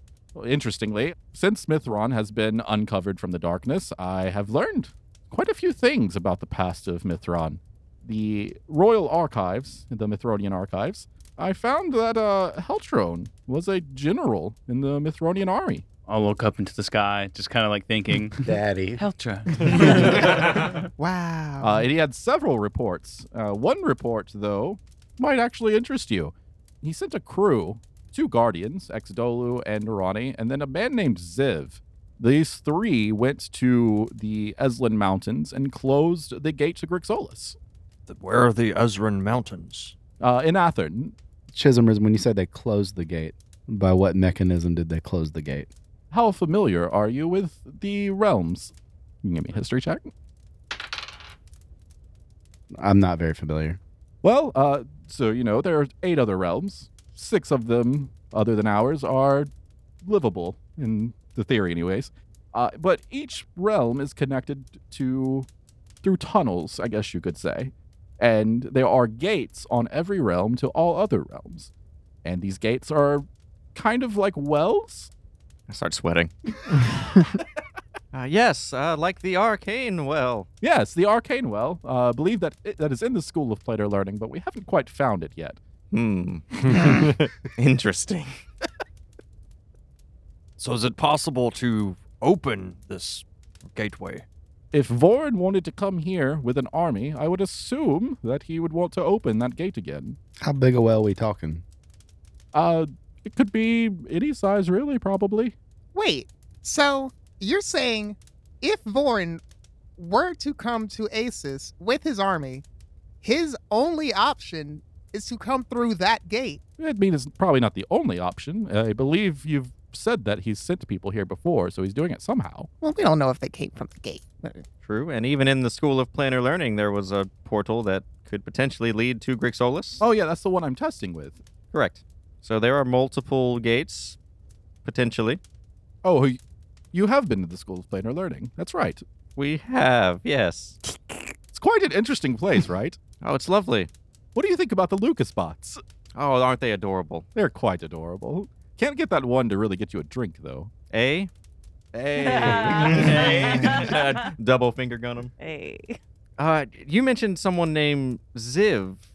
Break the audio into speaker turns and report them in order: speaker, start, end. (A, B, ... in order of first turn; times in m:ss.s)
0:00.4-0:15.8 A
0:16.1-0:20.8 B
0:18.4-0:19.0 C
0:21.0-0:21.9 D
0:21.6-0:37.6 A
0:38.1-0:40.0 E
0:40.2-0:41.2 A
0:41.5-0:45.7 C
0:46.1-0:50.1 A
0:52.8-0:53.8 C
0:54.2-0:59.5 A
1:00.0-1:05.5 A
1:06.0-1:11.7 A
1:12.2-1:15.1 A
1:15.7-1:16.3 F
1:18.1-1:20.5 F
1:20.6-1:25.6 A
1:25.9-1:28.4 F
1:30.6-1:34.3 E
1:34.7-1:40.2 A
1:40.4-1:41.6 C
1:42.5-1:45.6 A
1:45.9-1:49.4 D
1:50.0-1:52.6 D
1:53.2-1:56.6 D
1:56.8-2:02.7 A
2:02.8-2:04.6 D
2:04.8-2:10.0 F
2:10.0-2:11.4 A
2:11.7-2:14.2 F
2:14.8-2:15.4 F
2:16.0-2:16.4 A
2:16.9-2:19.0 A
2:19.4-2:20.8 F
2:21.5-2:23.0 A
2:23.2-2:23.9 F
2:24.4-2:25.8 A
2:26.2-2:27.3 F
2:27.4-2:30.7 A
2:30.9-2:31.3 F
2:31.9-2:33.3 A
2:32.2-2:34.3 G
2:32.4-2:35.3 F
2:32.9-2:33.9 B
2:35.4-2:36.0 G
2:36.4-2:39.0 F